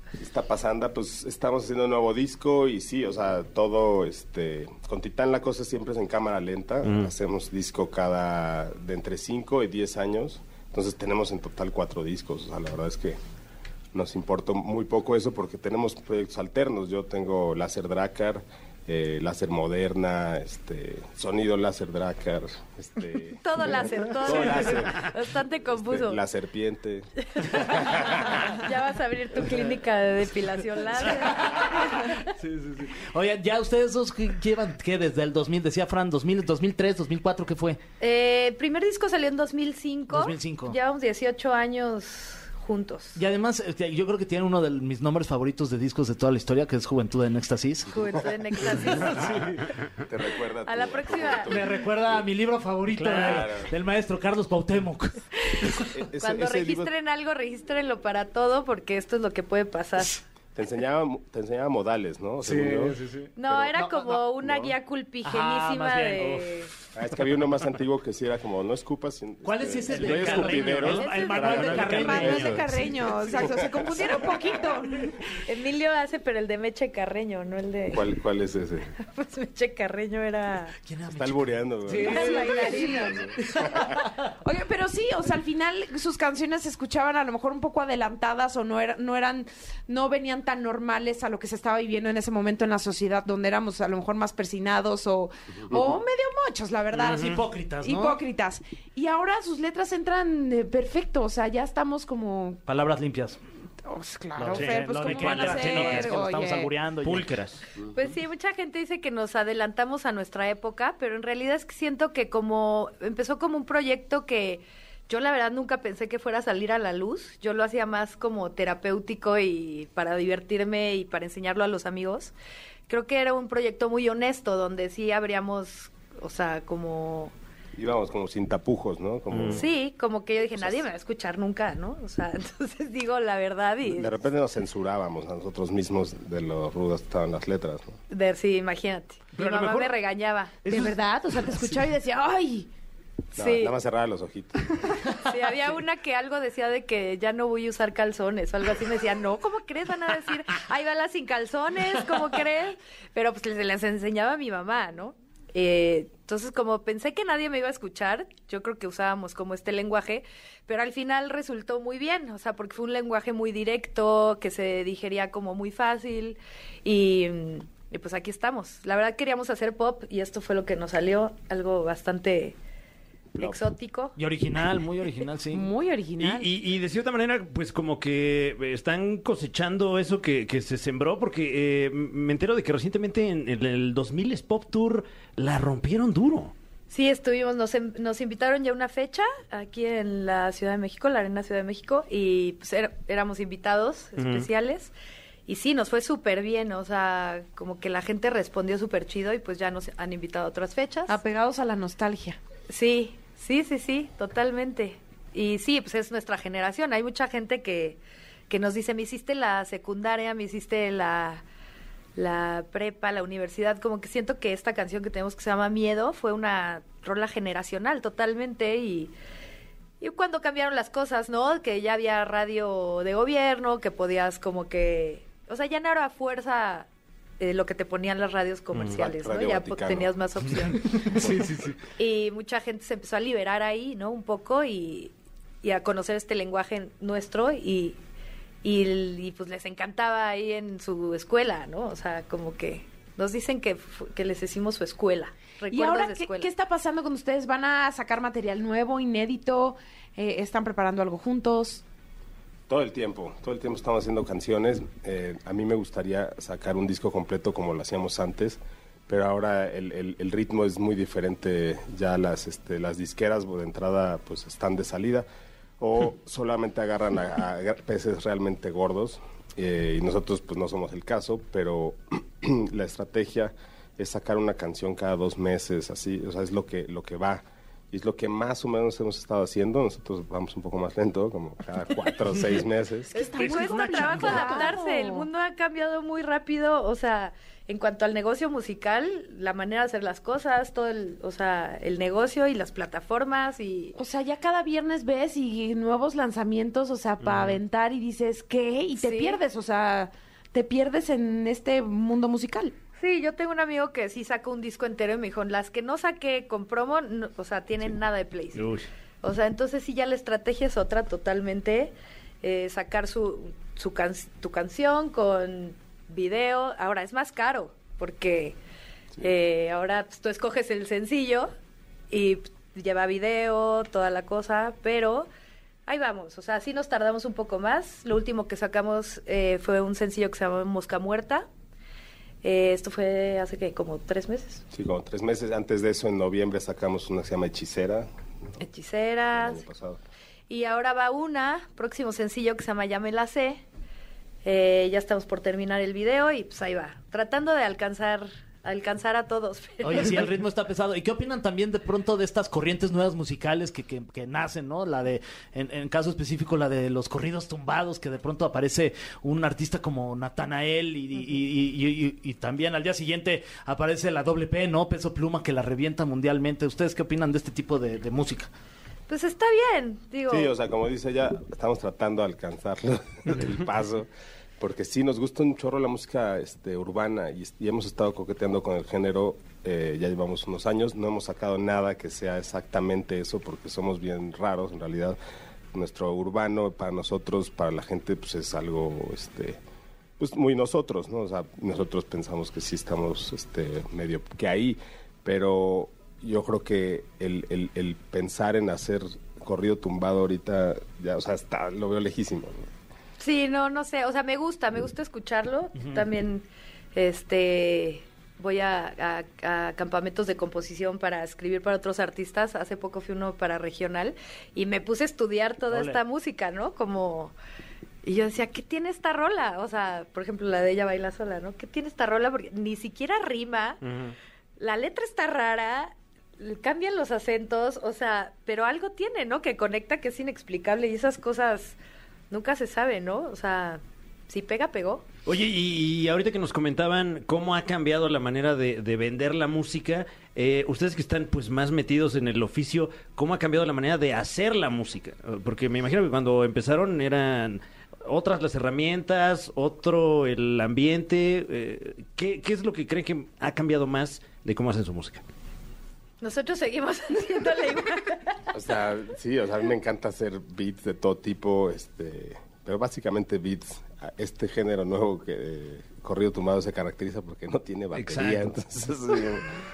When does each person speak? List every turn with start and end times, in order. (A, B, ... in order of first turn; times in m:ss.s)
0:00.2-0:13.2 A
0:06.8-0:07.1 B
0:13.9-0:28.3 A
0:23.4-0:26.2 C
0:27.4-0:32.3 C
0:31.7-0:37.8 D
0:38.0-0:43.2 C
0:40.1-0:40.8 D
0:43.2-0:47.9 D
0:47.9-0:49.5 C
0:48.6-0:52.2 A
0:49.2-0:49.5 D
0:50.7-0:51.7 C
0:51.5-0:55.2 D
0:52.9-0:53.7 A
0:55.7-0:56.9 A
0:56.2-1:00.2 C
1:00.6-1:03.7 A
1:02.4-1:04.2 D
1:03.4-1:06.7 C
1:04.4-1:04.7 A
1:05.2-1:06.5 D
1:06.9-1:14.0 A
1:09.4-1:12.7 D
1:10.0-1:10.9 B
1:10.8-1:11.7 C
1:11.1-1:15.2 E
1:15.4-1:18.1 C
1:17.9-1:18.9 A
1:19.0-1:20.8 C
1:20.8-1:24.3 D
1:21.1-1:23.8 A
1:22.0-1:23.3 C
1:22.1-1:23.2 E
1:24.4-1:42.6 E
1:37.0-1:37.4 B
1:37.0-1:38.2 D
1:42.7-1:43.4 D
1:43.8-1:46.7 E
1:44.4-1:47.3 D
1:44.5-1:46.2 B
1:47.0-1:47.6 B
1:47.9-2:02.3 C
2:02.9-2:07.3 C
2:07.8-2:09.7 A
2:09.3-2:09.6 B
2:09.5-2:14.1 C
2:10.6-2:10.8 A
2:13.9-2:18.0 A
2:18.1-2:20.6 C
2:19.4-2:19.9 B
2:20.7-2:22.7 E
2:23.4-2:23.7 C
2:23.4-2:25.1 A
2:25.2-2:52.6 C
2:53.3-2:53.7 A
2:53.4-2:54.2 C
2:54.2-2:55.7 D
2:55.5-2:56.5 E
2:56.2-3:06.5 B
3:06.9-3:14.9 C
3:14.2-3:14.5 B
3:15.5-3:21.2 C
3:21.1-3:22.4 E
3:22.7-3:31.4 C
3:32.2-3:39.1 C
3:40.0-3:46.9 C
3:47.4-3:51.3 C
3:48.7-3:49.0 B
3:48.9-3:50.2 A
3:51.1-3:51.6 A
3:51.2-3:51.6 D
3:52.0-3:55.1 C
3:55.6-3:58.0 C
3:58.6-4:06.5 C
4:05.7-4:11.8 E
4:12.7-4:25.3 A
4:25.8-4:43.2 A
4:43.1-4:54.0 C
4:43.2-4:45.3 E
4:43.4-4:44.7 B
4:54.0-5:02.8 E
4:57.2-4:57.6 B
4:59.0-4:59.4 C
5:03.0-5:08.7 C
5:08.6-5:08.9 B
5:09.2-5:18.6 C
5:19.2-5:21.5 C
5:22.1-5:25.3 C
5:25.9-5:31.5 C
5:32.4-5:34.6 C
5:34.7-5:38.1 A
5:38.6-5:39.6 C
5:39.3-5:40.0 A
5:40.5-5:43.6 C
5:44.4-5:50.3 C
5:49.8-6:08.5 D
6:09.1-6:10.5 C
6:10.3-6:14.1 A
6:14.6-6:25.2 A
6:25.7-6:29.6 A
6:30.2-6:42.7 A
6:43.2-6:57.3 C
6:55.7-6:56.0 D
6:58.0-7:03.8 C
7:03.8-7:04.2 B
7:04.6-7:11.8 C
7:12.3-7:15.0 C
7:15.3-7:35.2 B
7:36.2-7:38.4 C
7:38.5-7:49.5 A
7:48.0-7:48.5 B